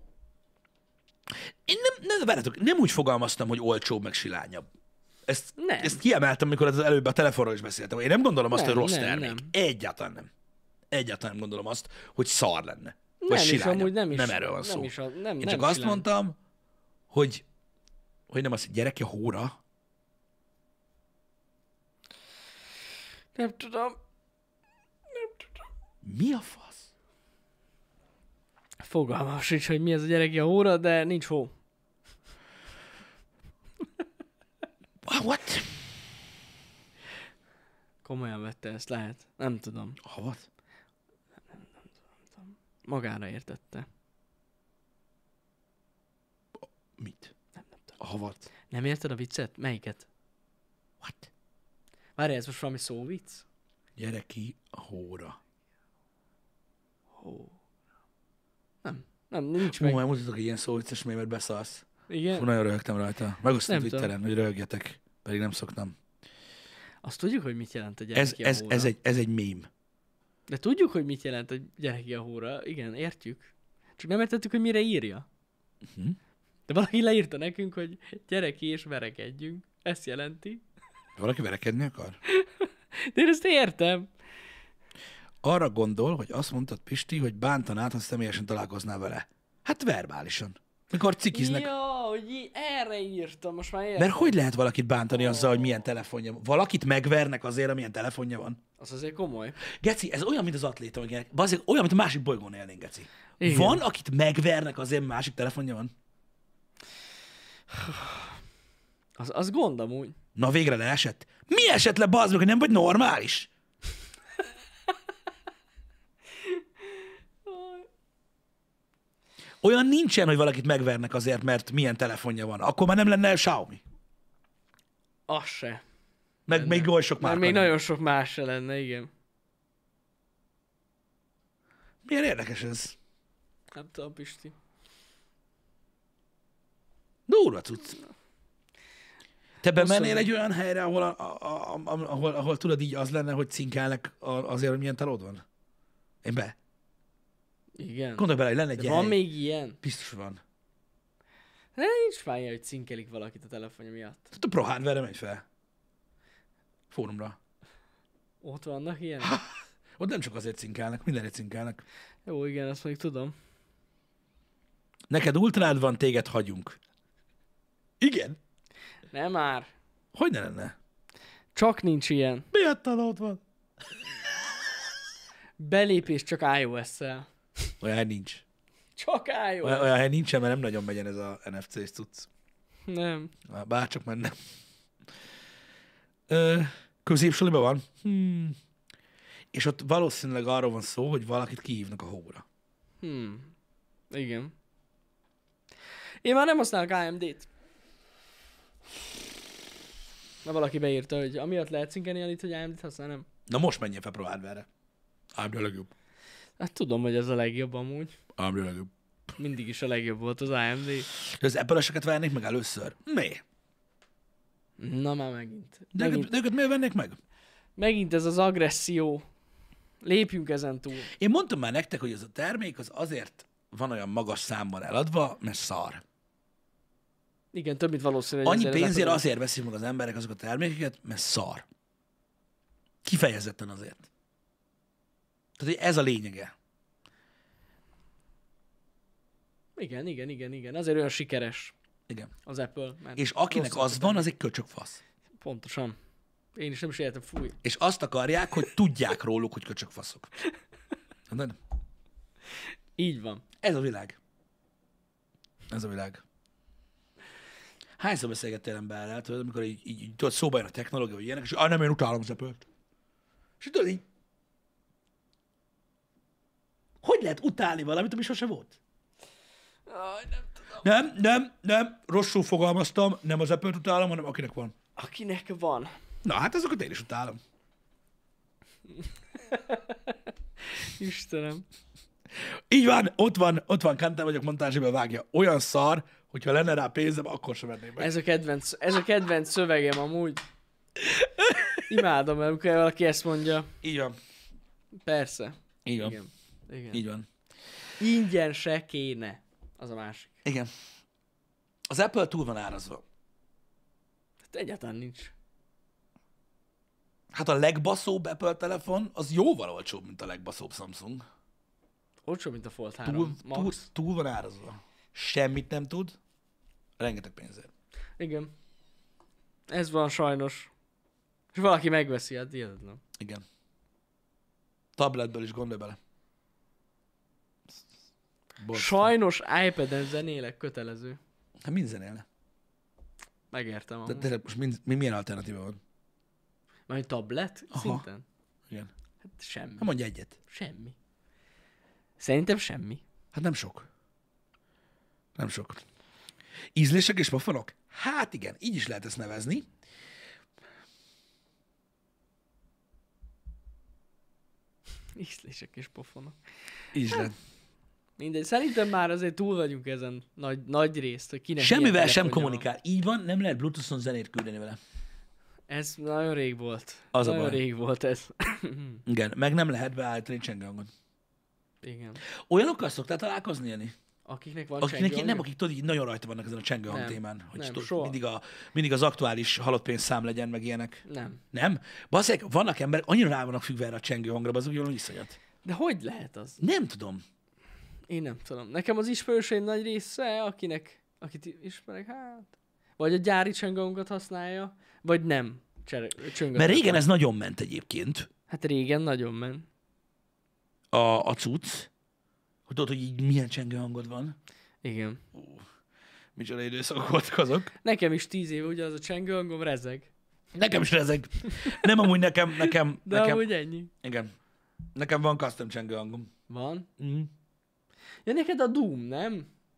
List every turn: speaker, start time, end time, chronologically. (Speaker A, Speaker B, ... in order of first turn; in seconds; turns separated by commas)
Speaker A: 1.6-4.7, Speaker A: 5.3-10.3, Speaker B: 5.6-6.0, Speaker B: 8.5-9.5, Speaker A: 10.9-16.4, Speaker B: 13.2-16.1, Speaker A: 17.1-17.4, Speaker A: 18.3-19.5, Speaker B: 23.3-24.0, Speaker A: 26.0-26.9, Speaker B: 28.8-31.5, Speaker A: 35.0-35.8, Speaker B: 38.0-40.0, Speaker A: 40.0-40.4, Speaker B: 42.4-43.9, Speaker A: 46.6-47.3, Speaker B: 47.6-47.9, Speaker A: 48.0-48.5, Speaker B: 48.7-50.1, Speaker A: 51.0-51.3, Speaker B: 52.2-53.4, Speaker A: 54.0-55.4, Speaker B: 57.2-57.5, Speaker B: 58.8-60.0, Speaker A: 59.6-66.0, Speaker B: 62.1-62.5, Speaker B: 63.7-64.1, Speaker B: 67.0-68.9, Speaker A: 68.1-69.7, Speaker B: 70.5-75.2, Speaker A: 75.8-76.2, Speaker B: 76.7-80.6, Speaker A: 81.2-82.2, Speaker B: 82.3-84.1, Speaker A: 85.4-91.7, Speaker B: 91.3-94.3, Speaker A: 94.0-98.6, Speaker B: 95.1-95.8, Speaker B: 98.8-99.6, Speaker A: 99.8-105.9, Speaker B: 103.4-103.8, Speaker B: 107.7-108.3, Speaker B: 109.2-110.2, Speaker A: 110.3-113.5, Speaker B: 116.4-117.9, Speaker A: 119.6-123.8, Speaker B: 125.3-125.8, Speaker A: 126.5-127.7, Speaker B: 126.5-129.1, Speaker A: 132.0-132.9, Speaker B: 133.7-134.5, Speaker A: 137.3-138.0, Speaker A: 139.6-145.4, Speaker B: 139.7-140.3, Speaker A: 146.2-146.5, Speaker B: 147.8-149.8, Speaker A: 148.2-149.2, Speaker A: 149.8-150.4, Speaker B: 151.8-154.3, Speaker A: 154.3-155.4, Speaker A: 156.9-157.4, Speaker B: 158.4-159.4, Speaker A: 159.2-161.8, Speaker B: 162.2-163.3, Speaker A: 165.1-166.8, Speaker A: 168.0-168.4, Speaker B: 169.1-169.7, Speaker A: 170.1-170.7, Speaker B: 171.5-172.5, Speaker A: 172.5-173.4, Speaker B: 175.6-177.7, Speaker A: 177.8-178.4, Speaker B: 179.0-179.9, Speaker A: 179.6-182.3, Speaker B: 182.9-183.3, Speaker A: 183.5-184.3, Speaker A: 186.3-188.6, Speaker A: 189.5-192.4, Speaker B: 193.0-193.5, Speaker B: 194.1-194.5, Speaker B: 196.2-197.5, Speaker B: 200.4-203.2, Speaker A: 203.5-204.7, Speaker A: 205.3-205.9, Speaker B: 206.6-208.2, Speaker A: 208.4-208.9, Speaker B: 209.4-211.1, Speaker A: 211.1-213.4, Speaker B: 214.8-216.3, Speaker A: 215.9-217.2, Speaker B: 217.8-219.2, Speaker B: 220.0-221.1, Speaker A: 221.1-226.0, Speaker B: 227.5-229.2, Speaker A: 228.4-231.6, Speaker A: 233.0-234.1, Speaker A: 235.6-236.5, Speaker B: 239.8-241.7, Speaker B: 242.4-244.3, Speaker A: 243.2-245.0, Speaker B: 245.4-246.0, Speaker B: 246.5-247.6, Speaker A: 247.6-250.3, Speaker A: 251.3-251.6, Speaker B: 253.0-253.4, Speaker A: 253.6-254.2, Speaker A: 255.7-256.2, Speaker A: 258.0-262.6, Speaker A: 263.6-264.0, Speaker A: 267.0-268.7, Speaker B: 269.9-270.8, Speaker A: 270.8-274.7, Speaker B: 274.9-275.9, Speaker A: 276.2-277.4, Speaker B: 279.4-280.1, Speaker B: 280.7-281.6, Speaker A: 282.7-288.1, Speaker B: 288.0-290.4, Speaker B: 291.7-293.7, Speaker A: 293.8-294.1, Speaker B: 295.0-297.0, Speaker A: 295.9-296.2, Speaker A: 296.9-297.3, Speaker B: 298.0-300.3, Speaker A: 300.4-300.7, Speaker A: 301.9-303.0, Speaker B: 304.5-305.3, Speaker A: 307.3-311.2, Speaker B: 312.2-313.8, Speaker A: 313.0-316.1, Speaker A: 317.0-317.7, Speaker B: 318.2-318.5, Speaker B: 319.7-320.7, Speaker B: 321.5-323.0, Speaker A: 323.2-323.4, Speaker A: 324.9-326.0, Speaker A: 328.6-329.1, Speaker B: 328.7-331.2, Speaker A: 331.6-332.2, Speaker B: 333.5-334.3, Speaker A: 334.1-335.8, Speaker B: 336.9-338.2, Speaker A: 337.7-338.0, Speaker B: 339.2-339.9, Speaker A: 339.8-340.4, Speaker B: 340.5-340.9, Speaker B: 342.2-343.0, Speaker A: 343.3-343.9, Speaker A: 345.4-345.8, Speaker A: 346.7-349.7, Speaker B: 355.1-356.4, Speaker A: 356.9-357.3, Speaker B: 357.1-357.3, Speaker B: 358.2-362.6, Speaker A: 361.6-364.8, Speaker B: 365.7-369.0, Speaker A: 367.1-367.6, Speaker A: 369.1-370.9, Speaker B: 371.8-372.2, Speaker A: 372.5-373.9, Speaker B: 374.2-375.4, Speaker A: 374.8-381.0, Speaker B: 376.9-378.1, Speaker B: 381.1-381.4, Speaker A: 381.5-385.4, Speaker B: 385.6-386.6, Speaker A: 386.6-387.2, Speaker B: 388.1-397.0, Speaker A: 396.5-398.3, Speaker B: 398.5-399.7, Speaker A: 400.9-401.9, Speaker A: 402.7-404.3, Speaker B: 404.8-405.2, Speaker A: 405.3-405.6, Speaker A: 406.4-407.7, Speaker B: 407.8-410.1, Speaker A: 410.5-413.5, Speaker B: 411.6-411.9, Speaker B: 412.6-413.9, Speaker A: 414.0-414.3, Speaker A: 414.9-416.3, Speaker B: 416.5-416.9, Speaker A: 417.0-417.3, Speaker B: 418.2-419.5